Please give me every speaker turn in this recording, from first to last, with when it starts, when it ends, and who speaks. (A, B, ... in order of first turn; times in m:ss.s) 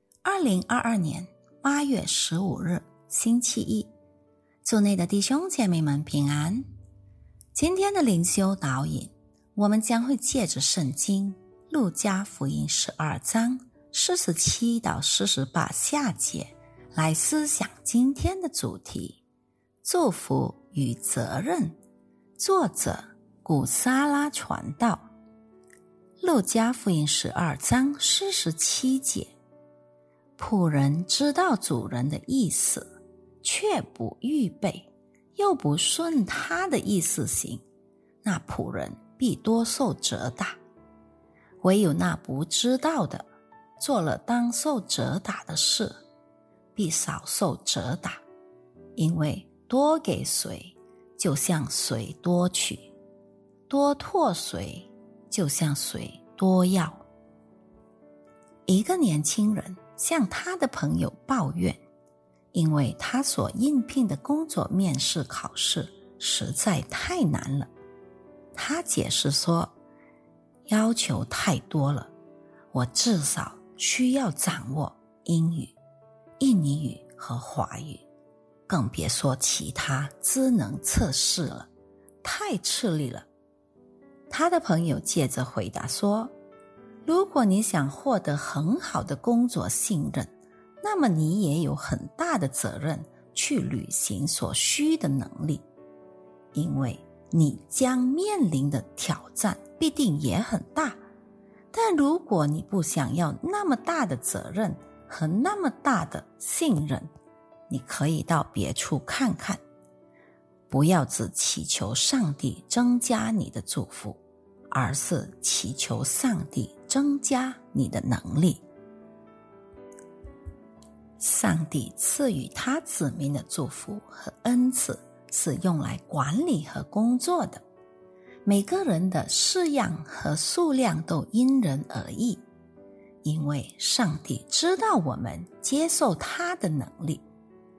0:00.2-0:03.9 A
0:04.6-0:06.7 A
0:07.5-0:19.2 A
0:19.8-0:21.8 A
0:22.4-0:25.1 A
0:26.2-0:29.3 A
0:30.4-0:32.9 A
0:33.4-0:37.6 A
0:38.2-0:40.6 A
0:41.6-0:43.3 A
0:43.8-0:45.9 A
0:46.7-0:48.2 A
0:49.0-0:52.9 A
0:53.7-0:57.0 A
0:58.7-1:01.8 A
1:02.5-1:07.7 A
1:08.5-1:09.7 A
1:10.7-1:12.1 A
1:12.7-1:15.7 A
1:16.4-1:18.0 A
1:18.7-1:21.7 A
1:22.2-1:23.3 A
1:24.3-1:26.3 A
1:27.0-1:35.6 A
1:36.5-1:41.0 A
1:41.7-1:47.1 A
1:47.7-1:49.6 A
1:50.7-1:58.6 A
2:01.2-2:07.6 A
2:08.4-2:12.4 A
2:13.2-2:17.2 A